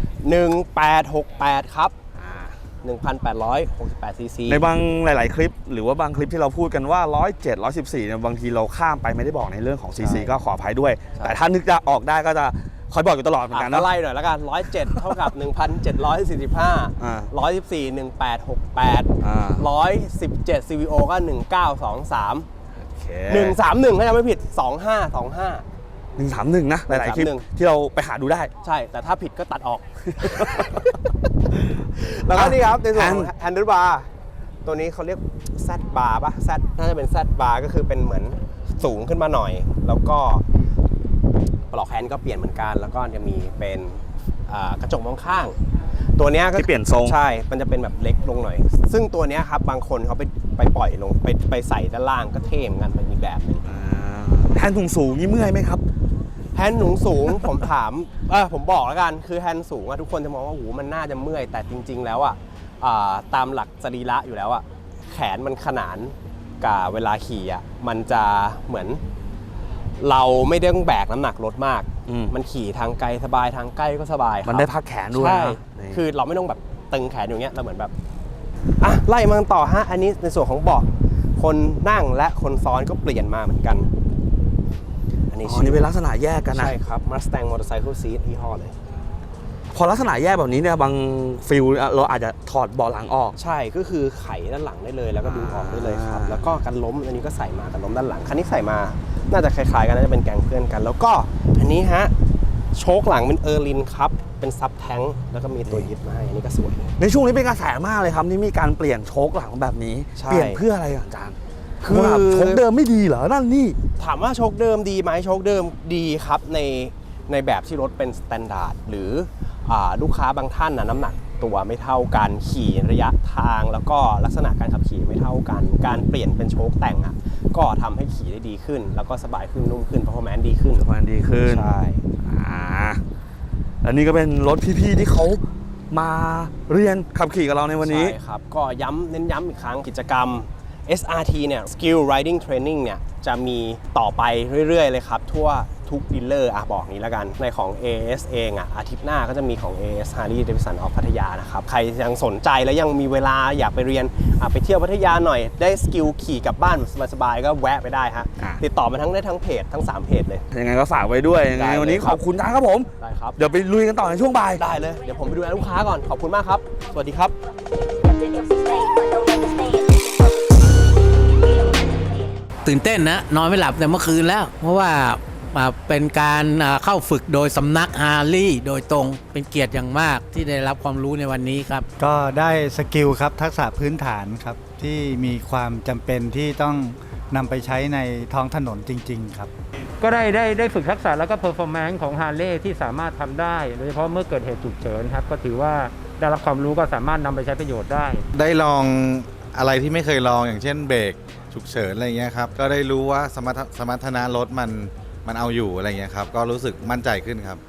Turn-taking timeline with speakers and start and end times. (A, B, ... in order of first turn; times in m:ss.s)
0:00.2-0:01.9 A
0:02.2-0:02.5 B
0:02.8-0:04.6 A
0:04.5-0:13.9 B
0:10.0-0:10.3 A
0:13.5-0:22.5 A
0:17.0-0:17.3 B
0:19.2-0:19.6 B
0:22.8-0:23.6 B
0:23.3-0:25.6 A
0:26.2-0:28.5 B
0:26.9-0:27.4 A
0:28.6-0:30.9 A
0:30.2-0:30.6 B
0:32.0-0:34.1 A
0:32.3-0:33.3 B
0:34.6-0:40.4 A
0:41.7-0:45.5 A
0:46.2-0:53.6 A
0:46.5-0:47.2 B
0:53.6-0:55.8 B
0:56.5-1:09.0 A
1:10.0-1:17.9 A
1:12.1-1:12.3 B
1:14.4-1:16.0 B
1:18.8-1:23.9 A
1:25.3-1:25.9 A
1:25.4-1:26.8 B
1:26.5-1:28.7 A
1:29.7-1:33.4 B
1:33.4-1:42.1 A
1:35.2-1:36.4 B
1:42.7-1:46.9 A
1:47.0-1:53.8 B
1:50.2-1:50.6 A
1:51.8-1:52.6 A
1:54.0-2:10.8 A
2:10.8-2:11.7 B
2:11.4-2:12.0 A
2:12.2-2:13.0 B
2:13.8-2:18.1 B
2:17.8-2:40.4 A
2:40.5-2:44.6 B
2:41.5-2:42.2 A
2:43.0-2:43.4 A
2:44.6-2:47.3 A
2:52.6-3:01.8 C
2:58.9-2:59.5 D
3:02.0-3:09.5 E
3:10.0-3:18.2 D
3:18.3-3:27.6 F